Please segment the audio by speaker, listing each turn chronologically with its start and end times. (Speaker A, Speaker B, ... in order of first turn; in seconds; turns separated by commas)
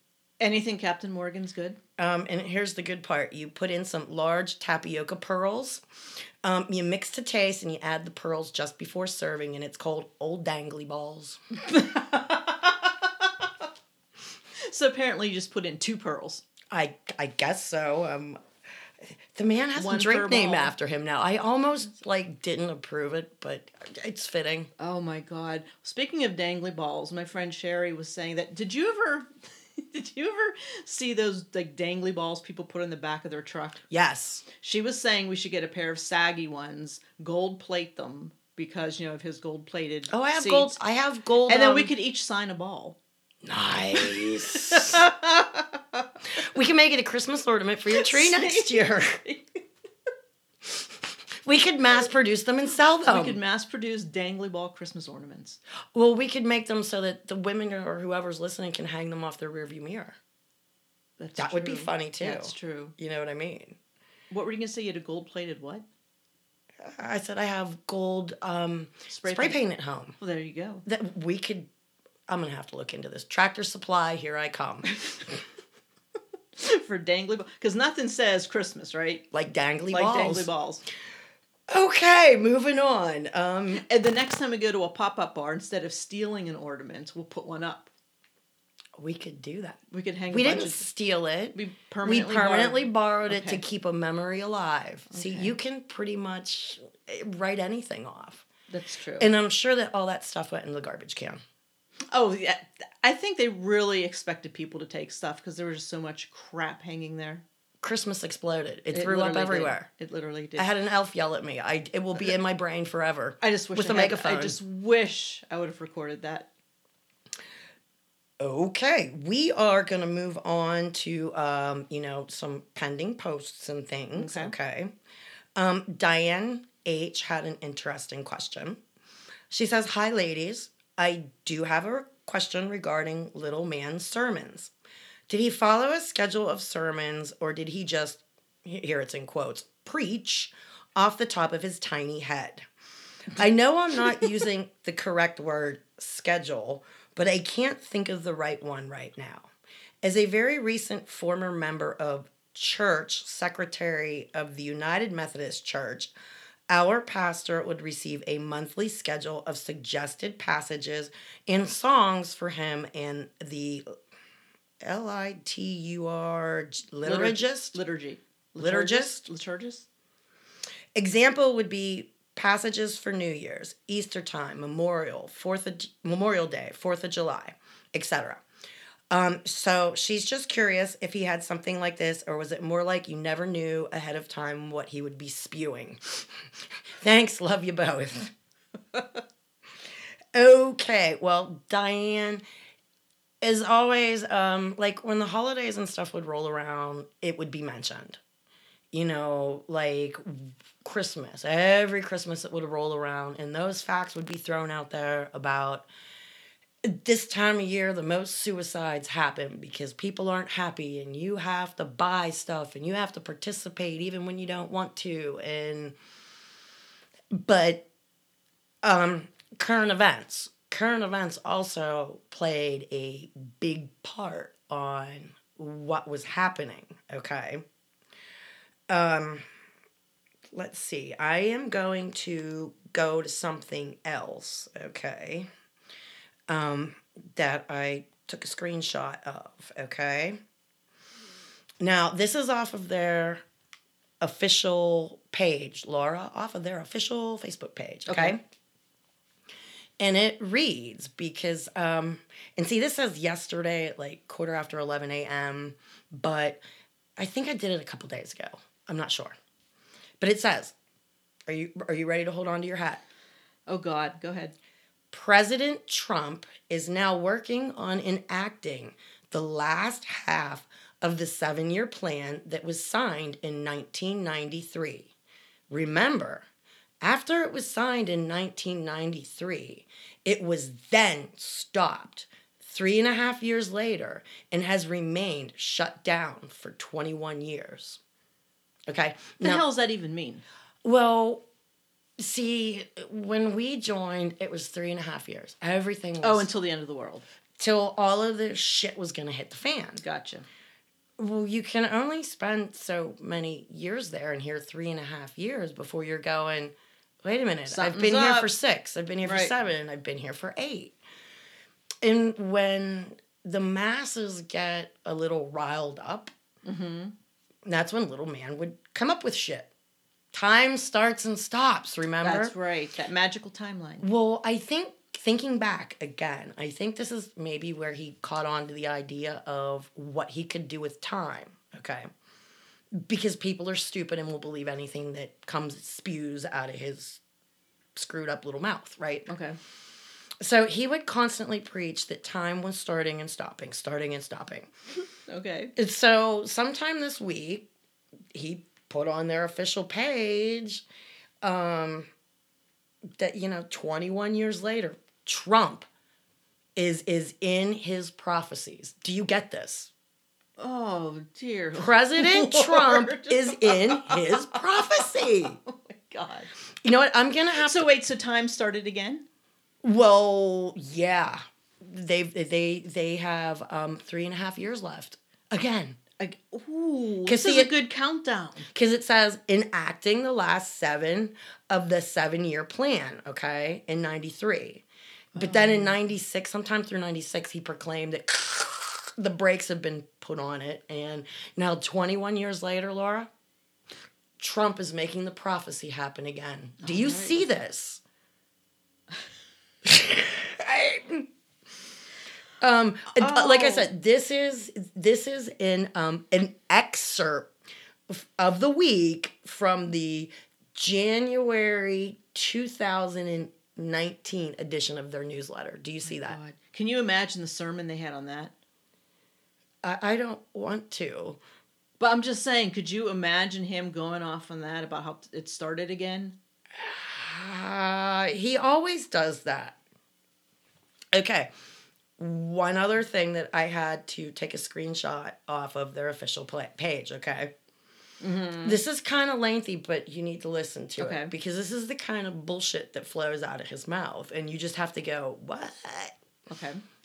Speaker A: 0.4-1.8, Speaker B: 2.0-5.8, Speaker B: 6.4-11.4, Speaker A: 11.6-13.5, Speaker A: 14.6-16.4, Speaker B: 16.7-18.4, Speaker B: 19.3-24.7, Speaker A: 19.8-20.7, Speaker A: 24.8-33.8, Speaker B: 33.9-34.5, Speaker A: 34.5-40.8, Speaker B: 40.1-41.9, Speaker A: 41.5-43.0, Speaker B: 43.4-45.1, Speaker A: 43.9-46.1, Speaker B: 46.4-49.2, Speaker A: 47.9-49.6, Speaker B: 51.4-53.4, Speaker A: 53.0-55.6, Speaker B: 55.9-60.1, Speaker A: 61.2-62.9, Speaker B: 61.4-63.8, Speaker A: 64.3-65.8, Speaker B: 66.8-70.2, Speaker A: 69.1-69.6, Speaker A: 70.2-70.8, Speaker B: 70.8-71.7, Speaker B: 72.3-75.4, Speaker A: 76.5-79.2, Speaker B: 79.3-80.5, Speaker A: 79.9-80.8, Speaker B: 81.7-83.8, Speaker A: 83.7-87.9, Speaker B: 89.0-89.8, Speaker A: 89.9-90.8, Speaker B: 90.3-98.5, Speaker A: 91.5-93.6, Speaker A: 95.1-95.5, Speaker A: 98.7-99.3, Speaker B: 99.2-101.4, Speaker A: 102.1-107.4, Speaker B: 107.8-109.9, Speaker A: 108.9-110.7, Speaker B: 110.6-114.6, Speaker A: 113.4-116.5, Speaker B: 118.4-124.9, Speaker A: 124.2-124.5, Speaker B: 125.5-128.8, Speaker B: 129.5-134.7, Speaker B: 135.3-142.6, Speaker B: 143.3-149.5, Speaker B: 150.0-156.1, Speaker B: 156.7-163.8, Speaker B: 164.8-167.8, Speaker A: 167.0-169.8, Speaker B: 168.6-169.2, Speaker B: 170.9-178.4, Speaker B: 179.1-186.2, Speaker B: 187.0-188.3, Speaker B: 190.3-192.4, Speaker B: 193.4-198.2, Speaker B: 198.9-205.8, Speaker B: 206.8-215.9, Speaker B: 217.3-217.8, Speaker B: 218.8-227.6, Speaker B: 228.9-229.4, Speaker B: 230.5-235.5, Speaker B: 236.5-240.4, Speaker B: 241.8-243.4, Speaker B: 244.2-248.4, Speaker A: 248.1-248.4, Speaker B: 250.0-256.6, Speaker B: 257.2-259.3, Speaker B: 260.2-260.7, Speaker B: 261.5-263.0, Speaker A: 263.7-264.5, Speaker B: 265.1-275.1, Speaker B: 275.7-276.4, Speaker B: 277.0-288.0, Speaker B: 288.9-289.6, Speaker A: 289.4-290.4, Speaker B: 290.8-291.4, Speaker B: 292.2-296.5, Speaker A: 296.2-297.2, Speaker B: 297.6-300.0, Speaker A: 300.0-300.4, Speaker B: 301.2-310.9, Speaker A: 307.7-308.5, Speaker A: 309.2-309.5, Speaker B: 312.0-316.3, Speaker A: 316.6-317.1, Speaker B: 317.6-319.7, Speaker B: 320.3-322.5, Speaker A: 322.2-324.1, Speaker B: 324.0-332.1, Speaker B: 333.0-337.2, Speaker B: 337.9-339.3, Speaker A: 339.3-339.6, Speaker B: 340.4-344.7, Speaker A: 345.3-345.7, Speaker B: 345.8-347.7, Speaker B: 348.3-350.8, Speaker B: 351.4-352.1, Speaker B: 353.2-355.9, Speaker B: 356.8-359.9, Speaker A: 360.6-366.5, Speaker B: 361.7-365.6, Speaker B: 366.8-367.9, Speaker A: 367.6-369.2, Speaker B: 369.8-376.0, Speaker A: 376.2-378.7, Speaker B: 377.2-377.7, Speaker B: 378.7-384.8, Speaker A: 385.3-386.0, Speaker B: 385.3-393.3, Speaker B: 394.4-398.0, Speaker A: 396.8-397.4, Speaker B: 399.8-401.3, Speaker B: 402.6-407.5, Speaker A: 403.1-403.9, Speaker B: 408.1-416.4, Speaker A: 416.1-418.5, Speaker B: 419.8-421.4, Speaker A: 422.0-426.4, Speaker B: 426.8-429.8, Speaker B: 431.1-431.5, Speaker B: 432.2-437.5, Speaker A: 438.2-438.8, Speaker B: 438.6-446.1, Speaker A: 441.0-441.3, Speaker A: 446.5-446.8